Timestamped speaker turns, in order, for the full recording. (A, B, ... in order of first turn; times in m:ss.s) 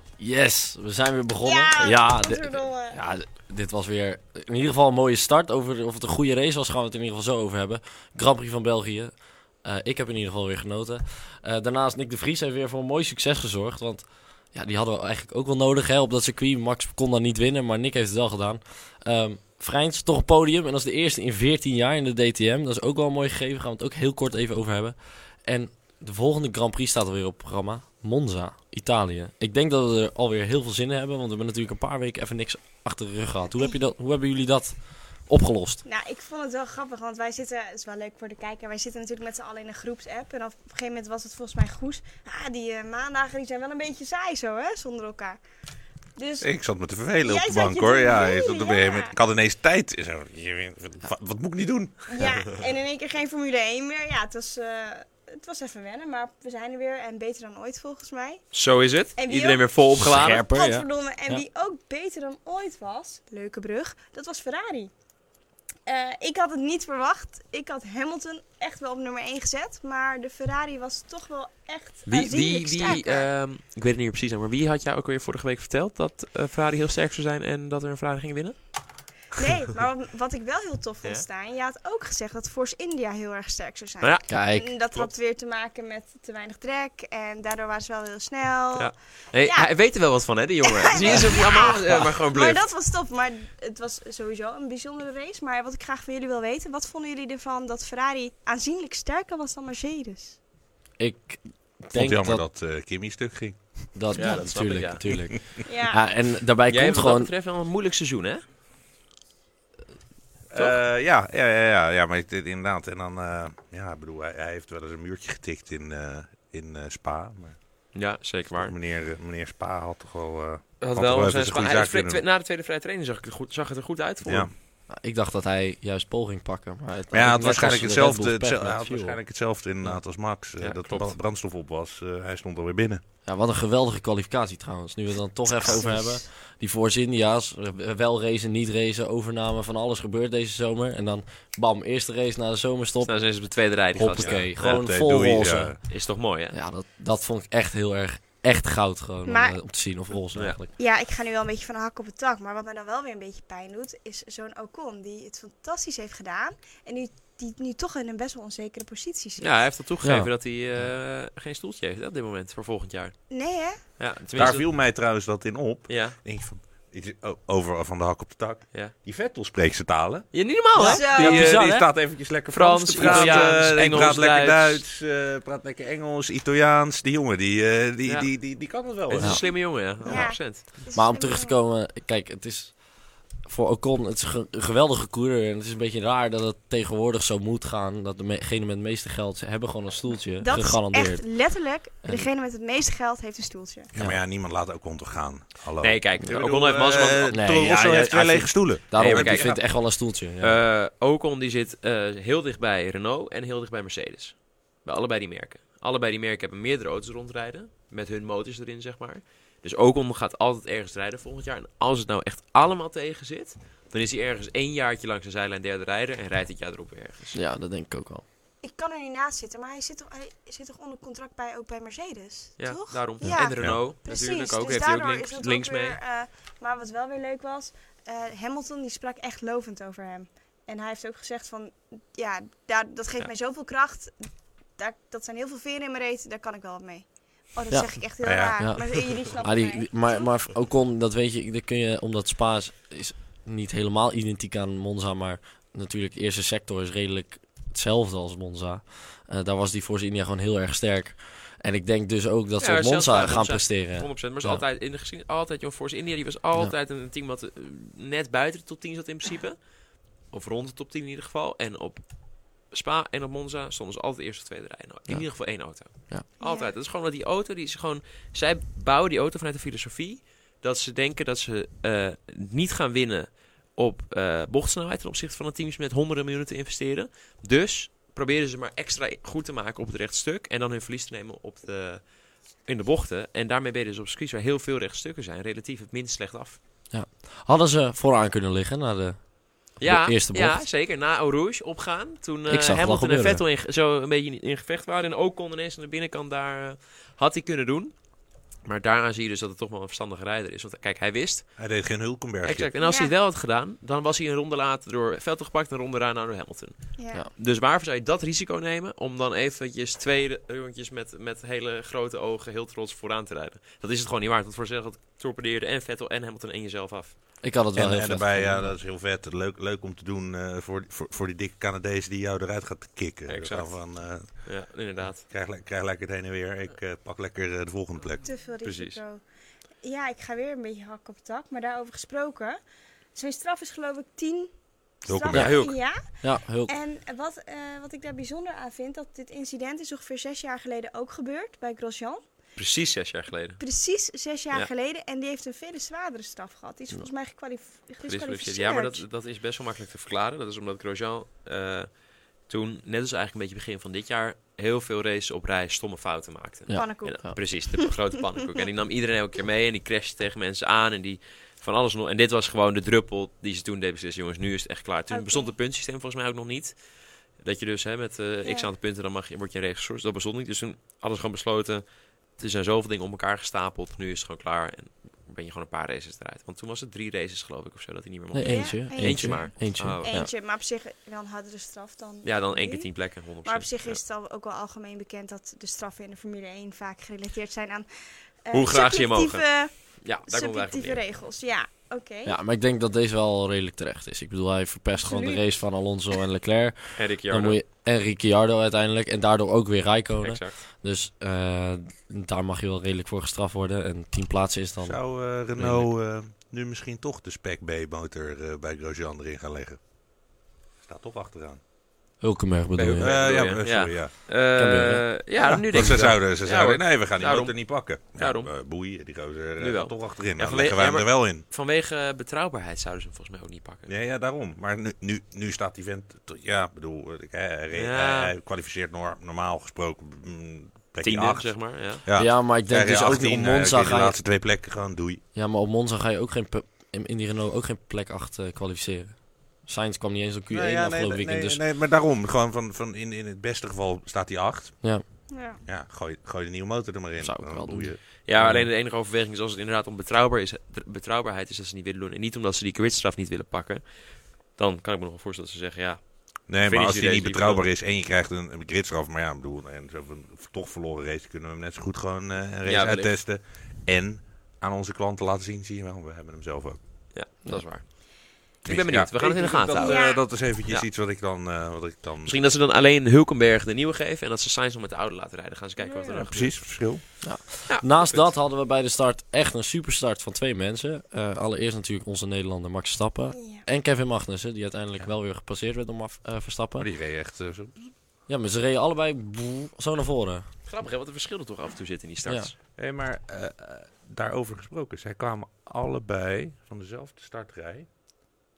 0:00.2-0:35.8 A
0:01.4-0:03.0 B
0:35.8-0:45.4 B
0:46.2-0:46.5 B
0:46.4-0:52.4 C
0:47.2-0:49.1 B
0:52.1-0:58.4 B
0:58.5-1:00.4 D
0:59.2-0:59.7 B
1:00.0-1:01.4 A
1:00.3-1:04.9 B
1:05.9-1:13.3 B
1:12.1-1:18.6 D
1:19.3-1:29.7 B
1:24.0-1:24.3 D
1:24.3-1:24.7 A
1:28.7-1:32.6 D
1:30.7-1:40.4 B
1:31.0-1:31.4 A
1:41.0-1:42.4 A
1:41.9-1:43.9 C
1:44.0-1:47.3 A
1:44.2-1:45.3 D
1:45.1-1:45.4 C
1:45.6-1:46.0 B
1:46.7-1:48.4 D
1:50.5-2:02.2 C
1:57.9-1:58.8 D
2:00.8-2:04.5 D
2:04.2-2:04.5 C
2:04.9-2:09.2 A
2:07.1-2:13.0 C
2:09.8-2:11.2 D
2:13.2-2:23.4 A
2:15.6-2:16.2 B
2:23.0-2:24.5 D
2:23.9-2:25.9 A
2:24.0-2:25.8 C
2:25.9-2:26.6 D
2:26.5-2:30.7 A
2:29.3-2:29.6 B
2:30.7-2:39.7 B
2:39.4-2:43.2 D
2:40.0-2:40.9 A
2:43.3-2:43.9 B
2:43.8-2:44.7 D
2:44.3-2:59.5 C
2:45.9-2:46.2 D
2:50.3-2:51.5 D
2:50.8-2:51.9 A
2:50.9-2:51.5 B
2:52.5-2:54.8 D
2:52.9-2:53.6 A
2:58.1-2:58.3 D
2:58.8-3:00.8 D
2:59.5-3:01.6 B
3:00.9-3:11.4 A
3:10.4-3:13.9 B
3:13.9-3:19.5 C
3:15.8-3:17.6 D
3:17.3-3:20.6 A
3:19.0-3:37.4 D
3:37.3-3:38.2 A
3:38.6-4:00.3 B
3:42.6-3:46.0 D
3:57.7-4:14.6 A
3:58.2-3:59.0 C
4:12.6-4:42.1 D
4:25.1-4:26.2 A
4:26.4-4:26.7 B
4:42.6-4:46.6 D
4:46.9-4:50.7 A
4:49.8-5:01.6 D
4:52.5-4:53.4 A
5:01.6-5:02.7 C
5:02.4-5:17.4 D
5:02.8-5:03.1 B
5:07.0-5:07.2 B
5:17.4-5:18.8 A
5:17.8-5:24.5 C
5:23.3-5:25.2 D
5:25.2-5:28.3 C
5:28.2-5:29.2 B
5:28.6-5:29.0 D
5:29.8-5:32.6 B
5:33.1-5:42.3 B
5:35.1-5:35.6 C
5:35.3-5:35.8 D
5:36.2-5:36.7 A
5:42.6-5:43.6 D
5:43.6-5:49.0 B
5:48.0-6:06.8 D
5:56.7-5:57.4 A
5:56.7-5:57.9 B
6:05.1-6:05.5 B
6:07.4-6:20.2 D
6:18.3-6:20.3 A
6:18.4-6:32.4 B
6:22.2-6:24.0 D
6:28.5-6:31.1 D
6:32.2-6:45.0 A
6:35.0-6:35.5 B
6:37.0-6:37.6 D
6:40.2-6:40.6 D
6:44.8-6:49.8 C
6:45.6-6:45.8 A
6:50.8-6:51.6 C
6:52.2-6:53.2 A
6:52.8-6:58.5 D
6:53.0-6:54.1 C
6:54.5-6:55.9 A
6:55.7-7:01.4 C
6:59.6-7:03.9 D
7:03.9-7:15.2 C
7:07.8-7:08.3 D
7:11.0-7:12.0 D
7:12.2-7:14.2 A
7:15.3-7:21.6 A
7:20.5-7:24.8 C
7:25.3-7:25.6 B
7:25.7-7:28.0 C
7:27.2-7:28.7 A
7:28.2-7:37.6 D
7:36.5-7:46.8 C
7:42.6-7:43.2 D
7:47.1-7:50.9 D
7:48.6-7:52.4 C
7:49.8-7:50.2 B
7:52.2-7:57.2 D
7:55.8-7:56.3 B
7:56.3-7:57.1 C
7:57.2-8:06.9 A
7:57.7-7:58.3 D
8:03.3-8:03.6 B
8:06.8-8:07.8 C
8:08.3-8:10.5 A
8:10.7-8:12.5 D
8:12.8-8:17.9 C